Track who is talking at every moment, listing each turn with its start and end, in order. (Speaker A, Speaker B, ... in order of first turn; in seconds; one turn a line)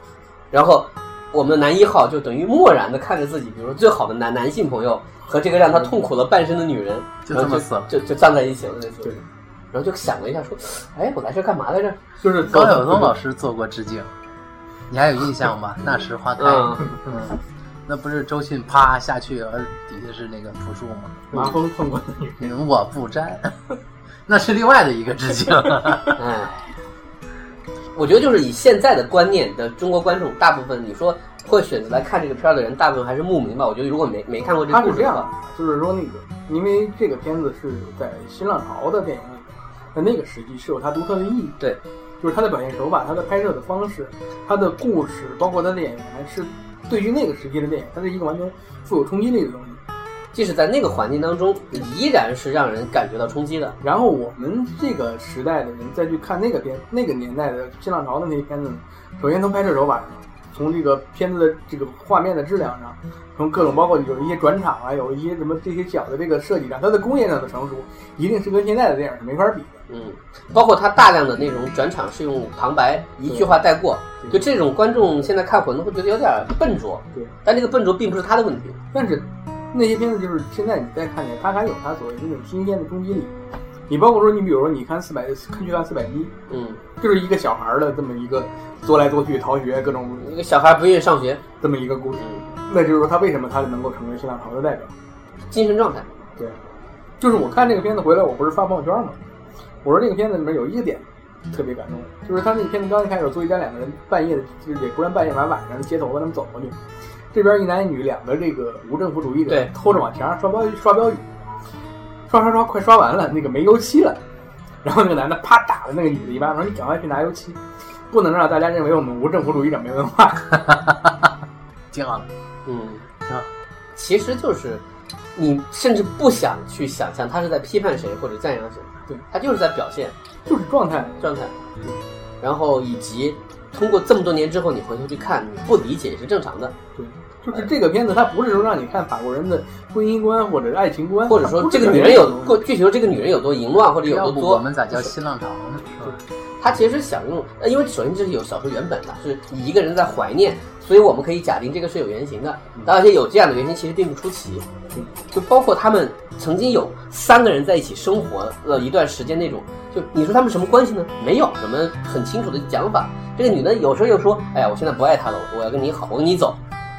Speaker A: 0.5-12.0
Speaker B: 7.2-7.9
Speaker C: 12.2-13.1
Speaker B: 12.4-14.1
Speaker B: 14.9-21.5
Speaker A: 16.4-16.9
Speaker C: 21.3-22.5
Speaker B: 22.4-23.6
Speaker B: 24.3-26.2
Speaker A: 26.1-26.7
Speaker A: 27.9-35.3
Speaker C: 34.7-41.6
Speaker C: 42.2-49.8
Speaker A: 50.3-53.8
Speaker C: 53.8-69.7
Speaker A: 69.9-78.8
Speaker C: 73.3-73.5
Speaker C: 78.9-83.3
Speaker C: 83.9-86.3
Speaker A: 86.5-86.8
Speaker C: 87.0-90.3
Speaker A: 90.2-91.4
Speaker C: 91.6-94.9
Speaker A: 95.5-96.1
Speaker C: 97.2-99.2
Speaker C: 99.8-106.8
Speaker C: 107.3-111.2
Speaker A: 109.5-109.7
Speaker C: 112.3-114.2
Speaker C: 114.8-117.6
Speaker C: 118.1-120.6
Speaker B: 120.6-121.3
Speaker B: 121.9-122.3
Speaker A: 122.7-123.0
Speaker A: 123.9-124.8
Speaker A: 125.3-130.1
Speaker C: 130.4-131.2
Speaker A: 131.2-131.5
Speaker A: 132.4-136.7
Speaker C: 136.9-142.6
Speaker A: 141.2-145.1
Speaker B: 144.0-146.2
Speaker A: 146.6-154.6
Speaker A: 155.3-166.6